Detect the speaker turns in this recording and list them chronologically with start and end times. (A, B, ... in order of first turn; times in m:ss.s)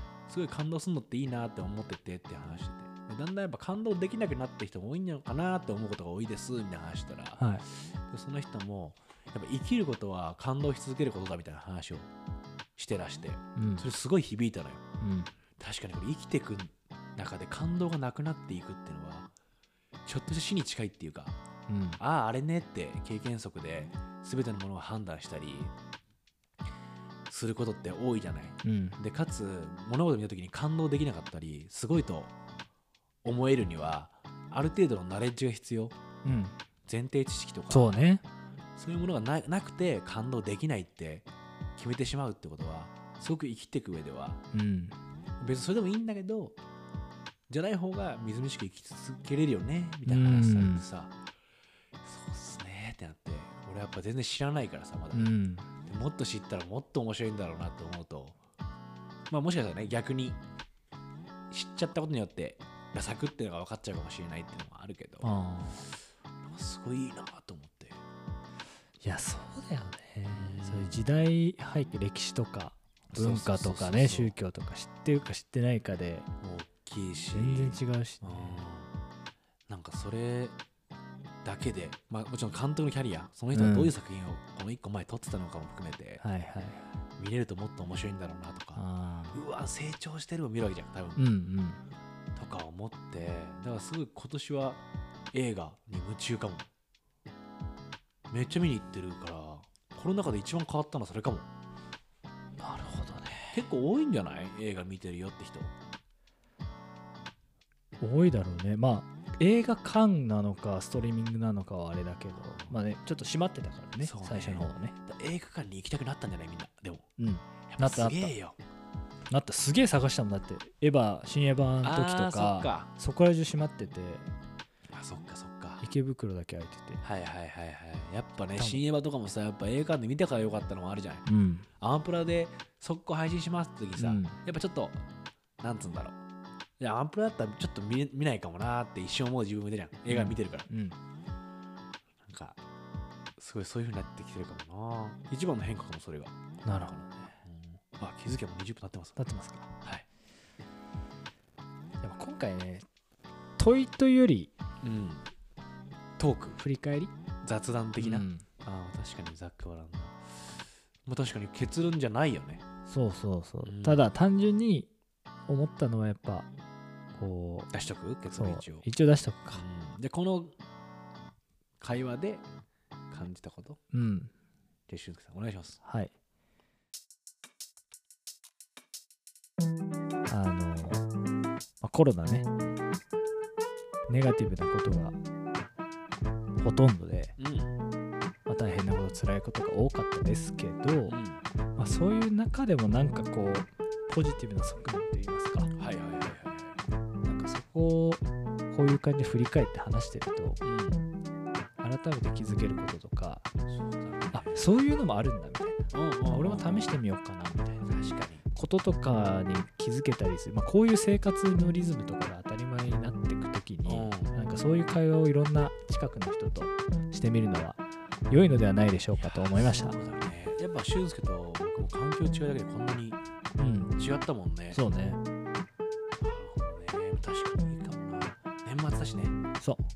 0:00.3-0:12.1 A
0:07.4-0:07.6 B
0:12.8-0:14.8 A
0:13.6-0:13.8 B
0:15.0-0:15.3 B
0:15.6-0:19.3 A
0:20.0-0:21.4 A
0:21.7-0:22.0 B
0:22.0-0:25.7 A
0:27.3-0:32.3 A
0:28.6-0:29.0 B
0:33.2-0:35.9 A
0:36.2-0:36.6 B
0:36.8-0:38.0 A
0:37.7-0:38.2 B
0:38.8-0:44.4 A
0:44.5-0:45.0 B
0:45.4-0:46.6 A
0:47.5-0:51.1 A
0:50.0-0:50.8 B
0:52.0-0:55.2 A
0:55.1-0:55.7 B
0:55.8-0:58.4 A
0:59.3-1:00.4 A
1:01.5-1:05.3 A
1:05.2-1:05.9 B
1:06.4-1:08.0 A
1:09.0-1:16.3 B
1:10.3-1:11.0 A
1:13.1-1:14.3 A
1:16.4-1:18.9 A
1:17.3-1:18.6 B
1:19.7-1:20.6 A
1:21.4-1:26.2 A
1:23.5-1:23.9 B
1:26.2-1:26.8 B
1:27.2-1:31.2 A
1:28.8-1:29.4 B
1:31.2-1:31.8 B
1:32.3-1:36.7 A
1:38.3-1:41.5 A
1:42.6-1:43.6 B
1:43.5-1:45.7 A
1:48.0-1:55.0 B
1:52.4-1:52.7 A
1:54.0-1:57.0 A
1:57.2-1:58.3 B
1:57.7-1:58.6 A
1:59.3-2:04.3 B
2:01.8-2:02.9 A
2:04.9-2:05.8 A
2:05.8-2:07.0 B
2:07.0-2:11.3 A
2:08.6-2:08.8 B
2:11.3-2:11.7 B
2:11.8-2:15.0 A
2:14.0-2:14.4 B
2:15.6-2:16.2 A
2:16.8-2:20.7 A
2:20.1-2:21.0 B
2:22.2-2:22.6 A
2:23.4-2:29.2 A
2:26.6-2:27.4 B
2:29.2-2:29.7 B
2:29.8-2:30.0 A
2:32.0-2:32.8 B
2:33.6-2:34.5 B
2:34.8-2:35.3 A
2:36.2-2:36.6 A
2:36.5-2:37.1 B
2:37.4-2:42.6 A
2:38.0-2:38.4 B
2:42.9-2:44.9 B
2:43.6-2:44.0 A
2:45.5-2:46.5 B
2:47.1-2:47.7 B
2:47.7-2:48.8 A
2:48.3-2:49.6 B
2:49.5-2:50.6 A
2:51.8-2:52.4 A
2:53.1-2:53.8 A
2:53.9-2:54.3 B
2:54.9-2:55.8 A
2:55.8-2:56.1 B
3:00.3-3:01.0 B
3:01.8-3:02.5 B
3:04.1-3:05.2 B
3:06.6-3:07.3 B
3:07.4-3:07.7 A
3:08.4-3:11.2 B
3:11.1-3:11.4 A
3:11.8-3:15.7 B
3:15.8-3:16.8 A
3:17.2-3:20.6 B
3:20.6-3:21.0 A
3:21.8-3:23.4 B
3:23.7-3:24.7 A
3:24.3-3:27.9 B
3:25.9-3:26.9 A
3:27.8-3:28.4 A
3:28.5-3:40.0 B
3:33.8-3:34.3 A
3:39.1-3:43.2 A
3:43.6-3:43.9 B
3:44.0-3:44.8 A
3:44.7-3:45.2 B
3:46.2-3:49.4 A